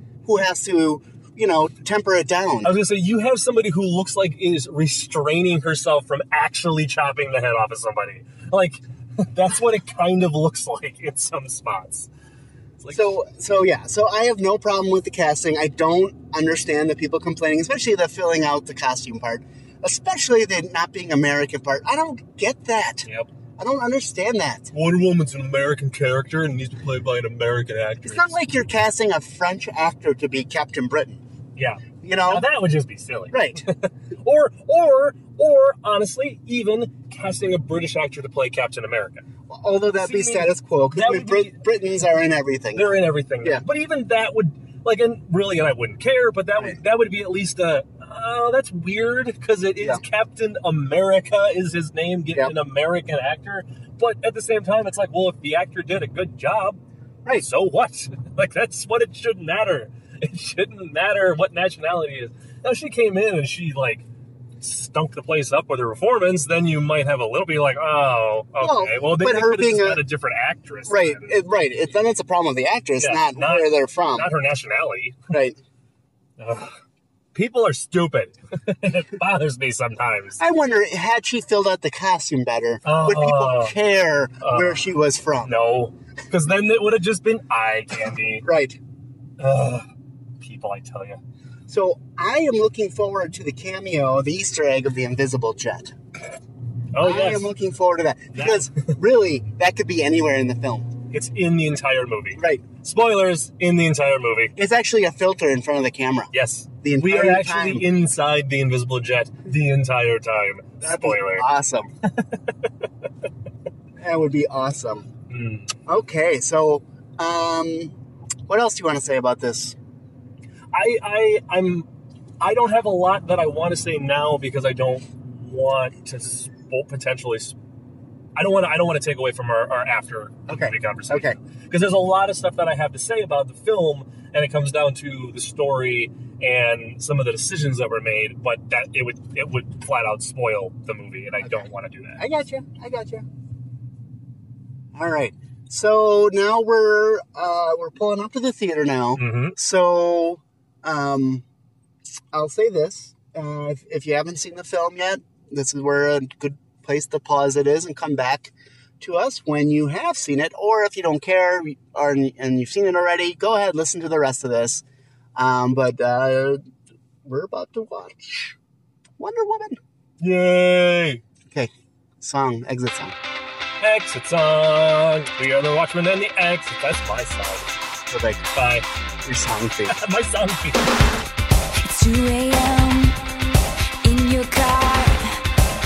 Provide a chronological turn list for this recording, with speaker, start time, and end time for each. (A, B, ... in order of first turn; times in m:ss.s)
0:00.2-0:02.7 A
0:02.6-0:12.1 B
0:12.8-0:13.1 B
0:12.9-0:23.1 A
0:23.6-0:24.7 A
0:24.7-0:28.3 B
0:28.0-0:31.2 A
0:31.6-0:39.2 B
0:32.0-0:32.4 A
0:33.3-0:33.6 A
0:39.5-0:43.6 A
0:40.0-0:41.6 B
0:42.7-0:56.8 B
0:57.3-1:04.0 B
1:04.6-1:11.4 B
1:08.6-1:10.1 A
1:10.9-1:14.3 A
1:13.0-1:15.3 B
1:15.3-1:15.6 A
1:16.4-1:16.8 B
1:17.3-1:20.4 B
1:20.4-1:25.5 A
1:22.8-1:23.8 B
1:24.4-1:24.9 B
1:25.4-1:28.4 B
1:28.4-1:28.8 A
1:29.4-1:29.9 B
1:30.4-1:31.2 B
1:31.7-1:35.9 A
1:36.9-1:37.5 B
1:37.0-1:41.0 A
1:38.3-1:38.7 B
1:41.1-1:44.6 B
1:42.4-1:42.6 A
1:44.6-1:47.9 A
1:46.3-1:51.4 B
1:50.8-1:51.9 A
1:54.0-1:55.1 A
1:55.3-1:55.7 B
1:55.8-1:57.9 A
1:58.5-1:59.8 A
2:00.7-2:01.8 B
2:02.4-2:07.6 B
2:08.4-2:22.2 B
2:10.5-2:11.4 A
2:21.4-2:23.2 A
2:24.9-2:31.4 A
2:29.2-2:29.6 B
2:32.3-2:44.8 A
2:45.4-2:46.6 A
2:47.2-2:48.6 A
2:49.2-2:49.8 A
2:50.2-2:51.2 B
2:51.5-2:53.2 A
2:53.8-2:57.7 B
2:58.1-2:58.4 A
2:58.5-2:58.9 B
2:59.2-3:00.1 A
2:59.9-3:00.9 B
3:01.8-3:03.2 C
3:04.0-3:05.4 C